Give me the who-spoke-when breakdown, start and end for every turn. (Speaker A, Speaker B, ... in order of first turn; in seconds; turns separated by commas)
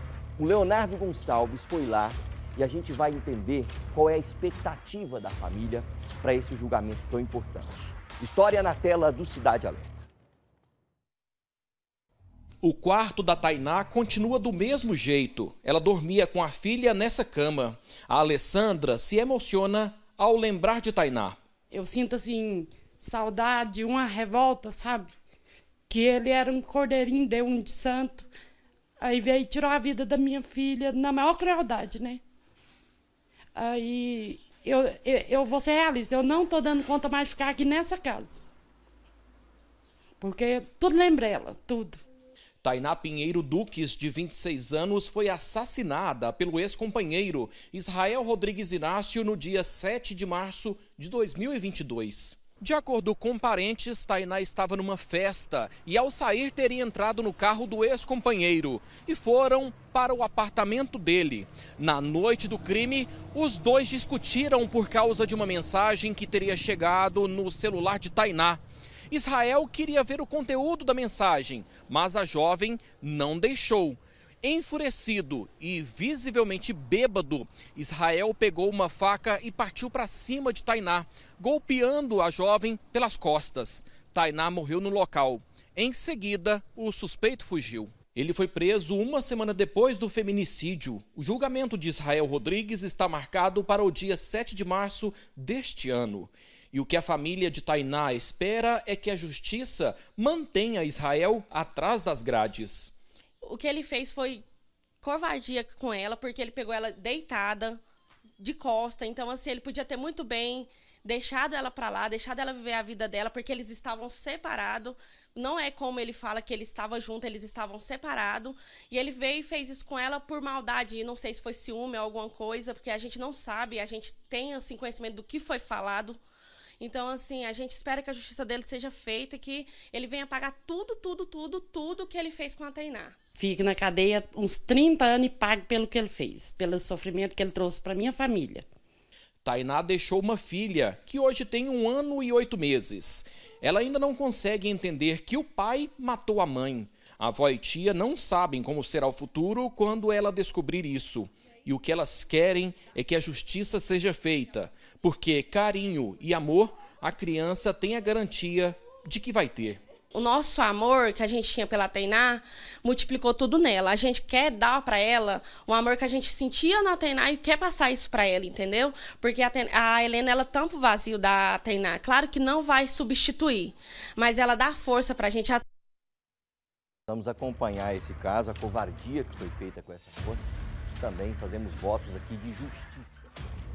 Speaker A: 0.4-10.1, Speaker B: 12.6-21.4, Speaker C: 21.7-25.1, Speaker C: 25.9-28.3, Speaker C: 29.0-32.2, Speaker C: 33.5-38.4, Speaker C: 40.2-42.0, Speaker B: 42.6-102.9, Speaker D: 103.4-104.4, Speaker D: 105.0-107.8, Speaker D: 108.4-126.2, Speaker D: 126.8-133.1, Speaker C: 133.3-138.6, Speaker B: 139.4-159.8, Speaker D: 160.1-175.6, Speaker A: 177.1-183.4